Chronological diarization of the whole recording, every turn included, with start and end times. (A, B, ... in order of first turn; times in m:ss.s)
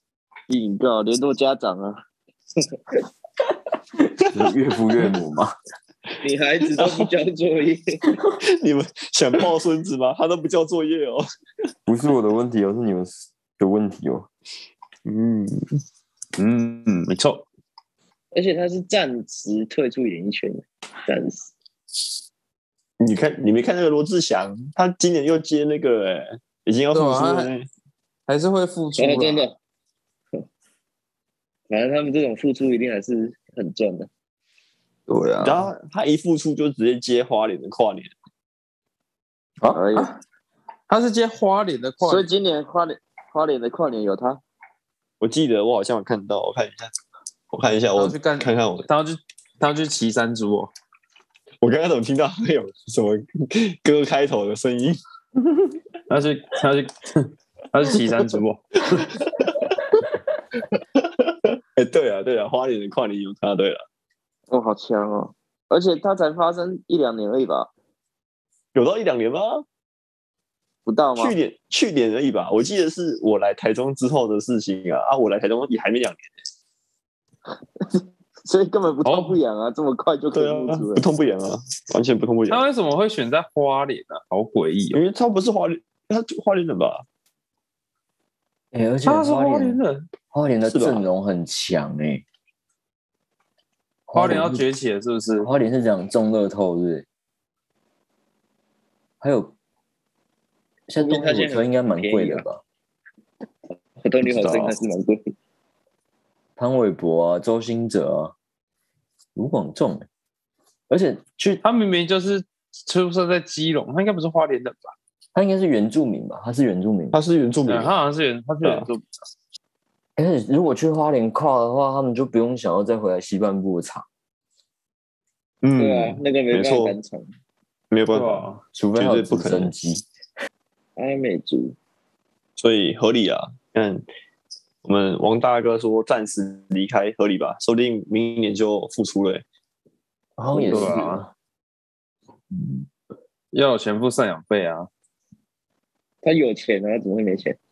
0:00.5-0:02.0 A
0:04.2-0:05.5 B
0:06.2-0:08.0 A
0:06.8-0:07.1 C
0:08.4-0:11.2 C
0:11.8-0:14.3 B
0:15.0-0:15.8 C
0:16.4-0:17.4 D
0:18.3-0:21.5 A
0:23.0-0:27.7 C
0:26.9-0:27.5 D
0:28.3-0:29.4 D
0:29.0-0:29.6 A
0:31.7-0:34.1 A
0:35.1-0:35.6 D
0:35.4-0:38.1 C
0:39.7-0:40.1 A
0:40.9-0:42.3 D
0:42.0-0:44.4 A
0:45.2-0:46.9 C
0:47.5-0:48.9 C
0:47.9-0:50.7 D
0:51.6-0:55.0 C
0:56.1-0:59.1 D
0:58.9-0:59.9 C
1:01.0-1:03.8 C
1:04.5-1:07.7 A
1:08.7-1:09.6 C
1:10.8-1:11.4 A
1:11.2-1:16.3 C
1:17.8-1:21.0 A
1:19.0-1:19.4 D
1:20.3-1:22.6 C
1:22.5-1:25.0 D
1:24.9-1:27.0 C
1:28.7-1:29.8 B
1:29.0-1:30.1 D
1:30.3-1:32.2 B
1:30.7-1:31.0 C
1:34.1-1:34.6 B
1:34.1-1:35.5 D
1:35.4-1:37.0 B
1:39.2-1:39.5 B
1:40.9-1:42.6 B
1:41.0-1:42.4 A
1:44.0-1:45.3 A
1:46.6-1:48.3 B
1:49.4-1:50.1 B
1:50.9-1:51.6 B
1:51.6-1:54.9 D
1:55.3-1:57.2 B
1:57.1-1:57.9 C
1:57.6-1:59.0 D
1:58.6-1:58.9 C
2:00.2-2:04.0 B
2:05.6-2:07.0 C
2:05.8-2:07.3 A
2:07.9-2:09.7 C
2:08.1-2:08.6 D
2:08.7-2:10.0 B
2:11.0-2:11.8 A
2:12.6-2:14.1 C
2:14.8-2:19.4 C
2:20.4-2:21.3 B
2:20.7-2:21.2 D
2:23.5-2:24.9 D
2:26.2-2:27.6 A